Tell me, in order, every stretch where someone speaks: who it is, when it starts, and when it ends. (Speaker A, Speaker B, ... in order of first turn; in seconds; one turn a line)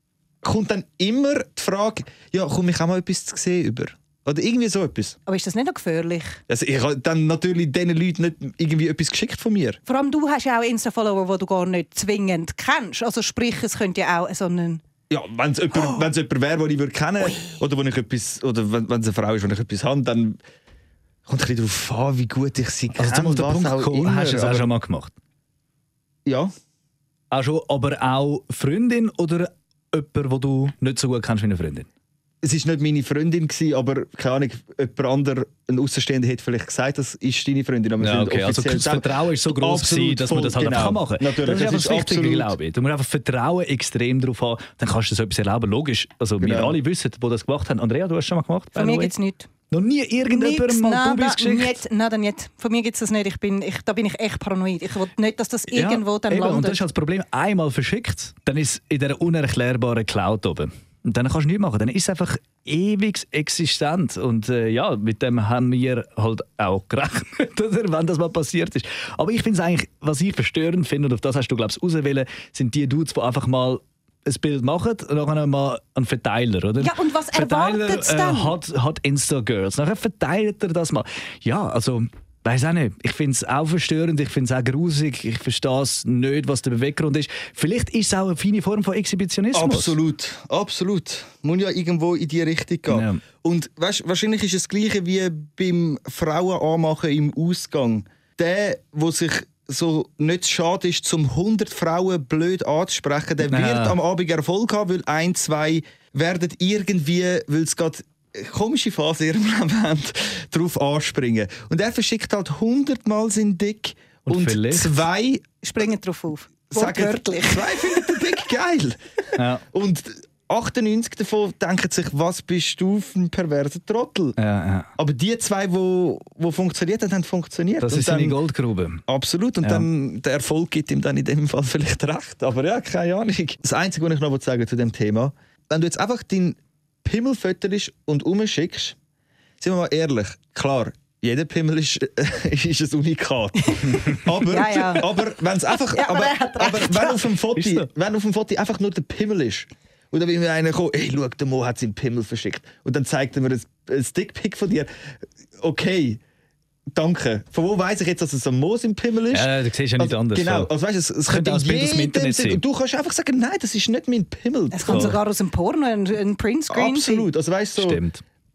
Speaker A: 0.4-5.2
Speaker B: 5.3-6.4
Speaker A: 6.5-9.8
Speaker B: 9.9-14.8
Speaker A: 15.1-20.4
Speaker B: 15.7-16.1
Speaker B: 17.2-17.6
Speaker A: 21.3-24.7
Speaker C: 22.9-25.1
Speaker A: 26.2-26.5
Speaker C: 27.3-31.9
Speaker A: 32.4-42.5
Speaker C: 38.0-49.1
Speaker A: 46.4-46.8
Speaker B: 48.8-49.5
Speaker C: 49.7-51.8
Speaker B: 50.3-56.8
Speaker C: 55.7-90.0
Speaker B: 76.8-78.6
Speaker A: 89.5-115.4
Speaker C: 92.9-93.2
Speaker C: 103.5-104.0
Speaker C: 114.3-115.0
Speaker B: 115.6-118.2
Speaker A: 116.7-119.0
Speaker C: 119.4-119.6
Speaker A: 119.7-124.4
Speaker C: 124.4-124.9
Speaker A: 125.0-128.4
Speaker C: 127.8-129.0
Speaker A: 129.1-139.0
Speaker C: 129.6-129.9
Speaker A: 139.6-154.9
Speaker B: 143.7-147.3
Speaker C: 147.5-147.9
Speaker A: 155.6-156.2
Speaker A: 156.9-165.2
Speaker C: 159.3-160.7
Speaker C: 161.3-162.6
Speaker B: 164.7-167.3
Speaker C: 164.9-165.2
Speaker A: 166.7-168.0
Speaker C: 167.8-168.2